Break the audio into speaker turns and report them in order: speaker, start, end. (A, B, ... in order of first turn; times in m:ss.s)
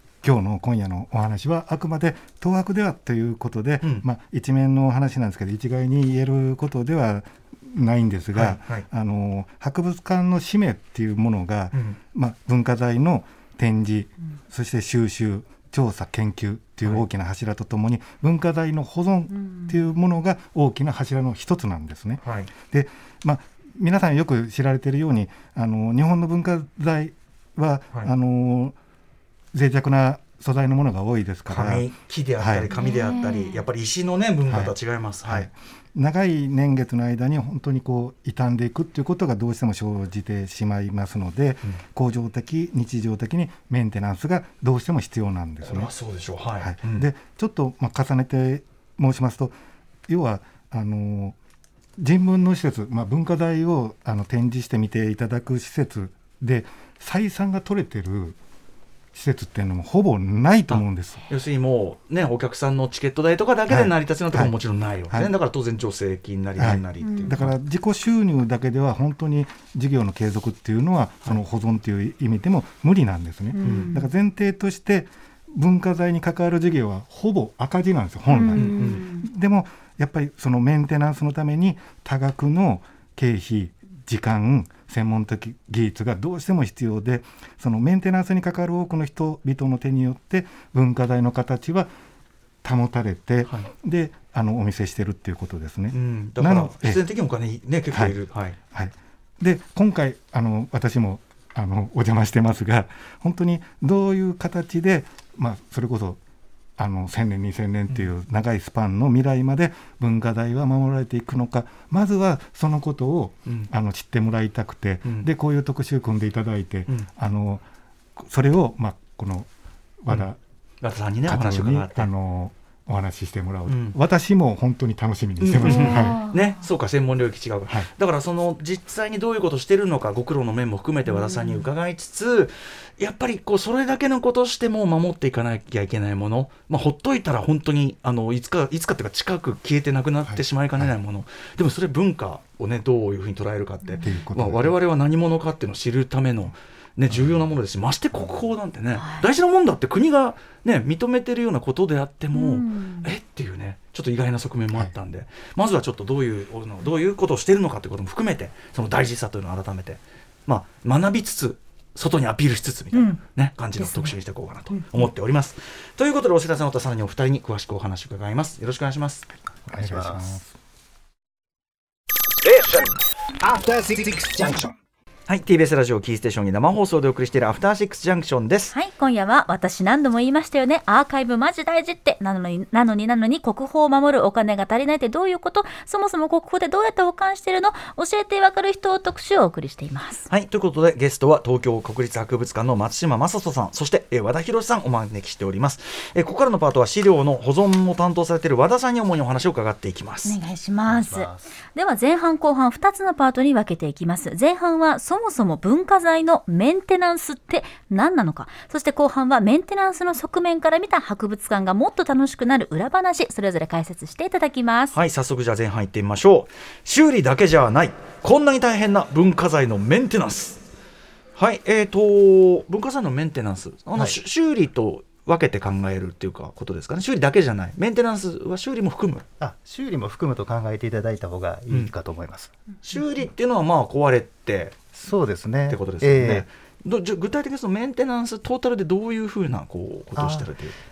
0:00.2-0:28.8 A
0:08.3-0:08.9 B
0:11.7-0:12.0 B
0:19.4-0:19.7 C
0:22.2-0:22.5 B
0:29.5-0:31.9 A
0:31.5-0:35.5 B
0:32.4-0:32.7 A
0:32.7-0:33.6 C
0:34.5-0:34.7 A
0:35.2-0:45.9 A
0:45.6-0:47.1 B
0:46.6-0:49.6 A
0:50.1-0:51.4 A
0:52.0-0:58.4 A
0:59.1-1:01.2 A
1:00.7-1:07.6 B
1:03.7-1:04.5 A
1:06.6-1:31.9 A
1:07.0-1:07.3 C
1:13.6-1:14.1 C
1:13.6-1:13.9 B
1:18.3-1:19.3 C
1:18.5-1:19.1 B
1:32.6-1:37.0 A
1:35.9-1:38.6 B
1:38.7-1:46.2 A
1:46.8-1:57.6 A
1:58.2-1:59.5 A
2:00.0-2:00.4 A
2:00.8-2:02.1 B
2:01.3-2:06.2 A
2:03.7-2:04.0 B
2:05.4-2:49.3 B
2:05.6-2:06.6 C
2:11.1-2:11.7 C
2:20.3-2:20.9 A
2:24.0-2:24.8 A
2:29.0-2:29.2 C
2:32.3-2:33.1 C
2:42.9-2:43.2 C
2:43.8-2:44.2 C
2:44.7-2:45.1 C
2:49.7-2:50.5 D
2:49.7-2:50.4 A
2:52.4-2:52.9 B
2:55.3-2:58.7 B
2:58.7-3:10.3 C
3:10.3-3:20.4 B
3:20.2-3:35.0 C
3:20.9-3:21.5 D
3:34.9-3:40.6 B
3:41.4-3:49.3 B
3:49.4-3:52.5 D
3:52.8-3:54.8 B
3:54.9-3:56.4 D
3:55.7-4:00.8 B
4:00.2-4:00.5 D